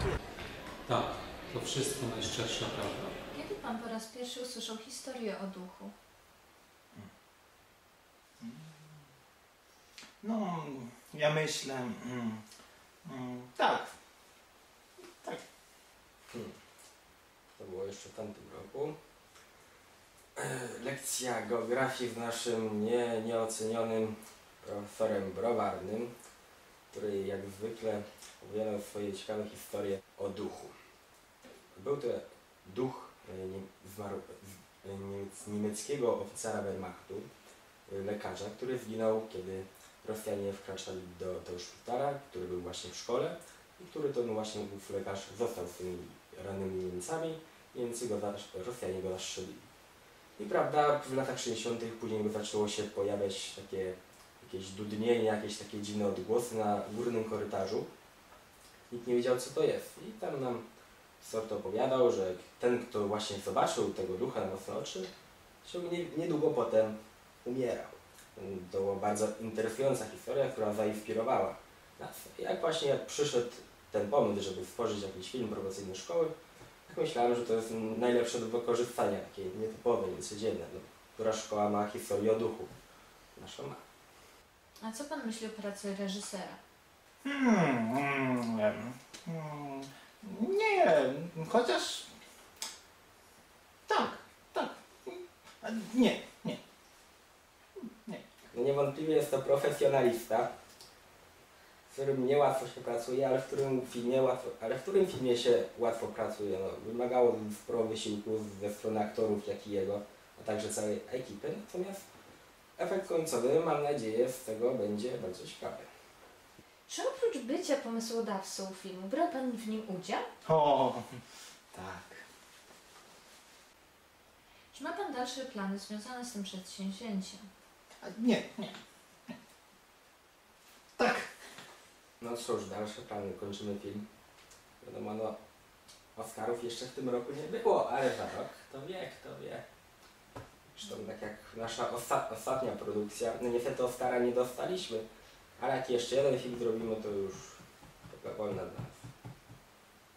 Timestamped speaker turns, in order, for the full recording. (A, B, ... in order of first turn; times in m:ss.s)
0:00.8-0:03.1 A
0:03.3-0:05.9 B
0:08.4-0:08.9 C
0:10.2-0:12.4 C
0:13.0-0:13.9 C
0:16.3-0:16.6 D
0:17.6-0:19.0 D
0:20.4-0:26.1 D
0:26.9-0:30.8 D
0:31.7-0:37.3 D
0:37.9-0:49.7 D
0:50.4-0:57.9 D
0:58.9-1:00.6 D
1:01.2-1:05.1 D
1:05.6-1:16.3 D
1:16.8-1:22.7 D
1:23.3-1:23.8 D
1:24.8-1:26.6 B
1:27.2-1:32.1 C
1:33.9-1:36.6 C
1:37.8-1:38.2 C
1:38.5-1:40.5 D
1:41.9-1:52.0 D
1:52.8-1:55.9 D
1:56.9-2:00.2 B
2:00.4-2:01.2 C
2:01.7-2:02.2 C
2:04.7-2:07.5 B
2:08.0-2:09.3 C
2:11.0-2:11.3 C
2:12.2-2:14.1 D
2:14.8-2:15.4 D
2:16.1-2:19.6 D
2:20.7-2:25.0 D
2:25.6-2:29.0 D